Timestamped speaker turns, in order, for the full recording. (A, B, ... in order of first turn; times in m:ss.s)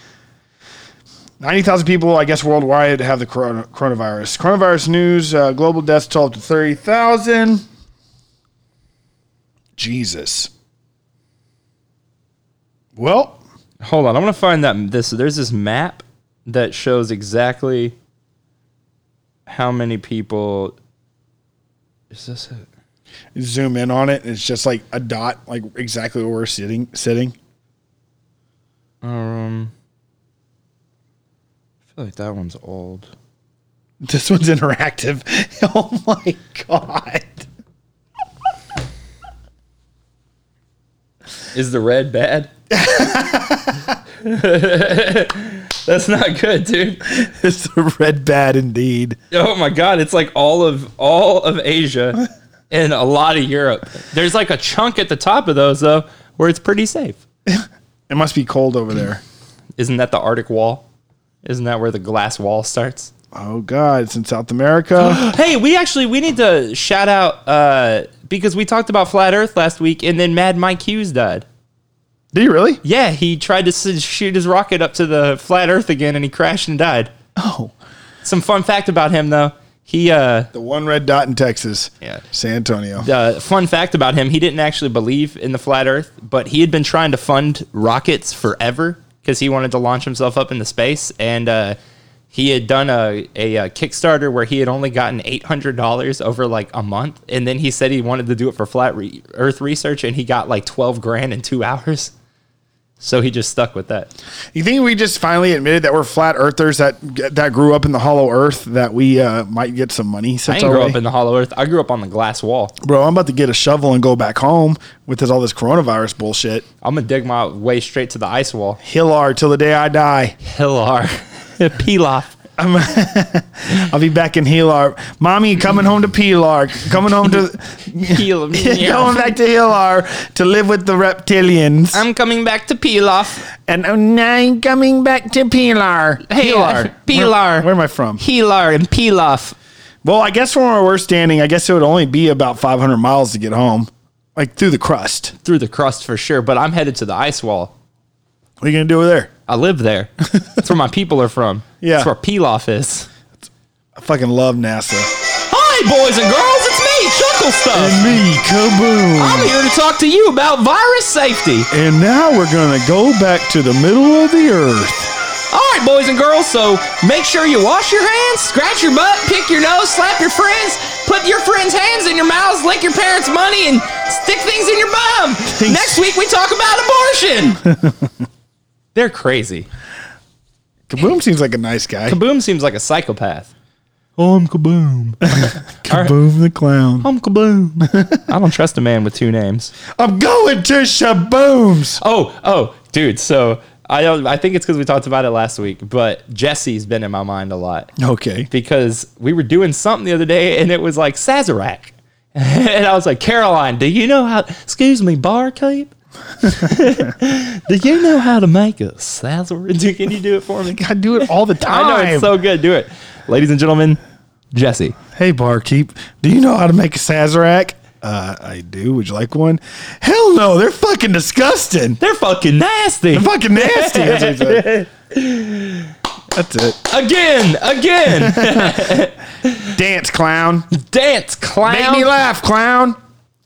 0:01.4-0:07.6 A
0:09.8-0:10.5 A
0:13.0-0:13.4 A
0:13.8-0:18.0 B
0:19.5-0:20.8 B
0:22.1-0:22.7 B
0:23.4-0:27.4 A
0:29.0-0:29.7 B
0:32.0-0:33.1 B
0:34.0-0:37.4 A
0:41.5-0:42.5 B
0:42.7-0:44.0 A
0:44.2-0:47.0 B
0:47.1-0:49.2 A
0:49.3-0:57.2 B
0:57.5-0:59.2 A
0:59.8-1:00.9 B
1:01.4-1:03.1 B
1:03.3-1:05.2 A
1:05.0-1:11.5 B
1:12.3-1:12.8 A
1:12.8-1:17.1 B
1:17.4-1:17.7 A
1:18.2-1:20.5 B
1:20.5-1:23.1 A
1:23.0-1:31.8 B
1:32.3-1:42.1 B
1:43.0-1:44.1 B
1:44.5-1:51.0 A
1:50.5-1:52.7 B
1:52.8-1:56.6 A
1:56.8-1:58.8 B
1:58.8-2:00.4 A
2:00.4-2:02.4 B
2:02.6-2:12.0 A
2:08.0-2:09.3 B
2:11.9-2:13.5 B
2:13.5-2:18.2 A
2:16.3-2:19.6 B
2:20.0-2:25.4 A
2:25.4-2:27.7 B
2:28.6-2:29.3 A
2:29.5-2:33.1 B
2:31.8-2:32.1 A
2:34.0-2:35.1 A
2:35.5-2:38.2 B
2:37.7-2:39.6 A
2:39.2-2:41.7 B
2:41.7-2:45.1 A
2:45.5-2:57.6 B
2:55.5-2:56.0 A
2:57.7-2:58.1 A
2:59.0-2:59.7 B
3:00.9-3:02.2 A
3:02.1-3:03.5 B
3:04.2-3:06.2 B
3:05.2-3:07.1 A
3:07.0-3:09.7 B
3:07.8-3:08.2 A
3:09.9-3:12.0 A
3:12.0-3:17.9 B
3:18.0-3:18.5 A
3:18.5-3:30.8 B
3:30.6-3:32.4 A
3:31.6-3:34.0 B
3:34.5-3:35.0 B
3:35.1-3:42.0 A
3:42.0-3:45.9 B
3:43.1-3:44.6 A
3:46.3-3:46.8 A
3:46.8-3:49.8 B
3:48.2-3:49.0 A
3:49.7-3:50.7 A
3:50.7-3:52.1 B
3:51.6-3:53.0 A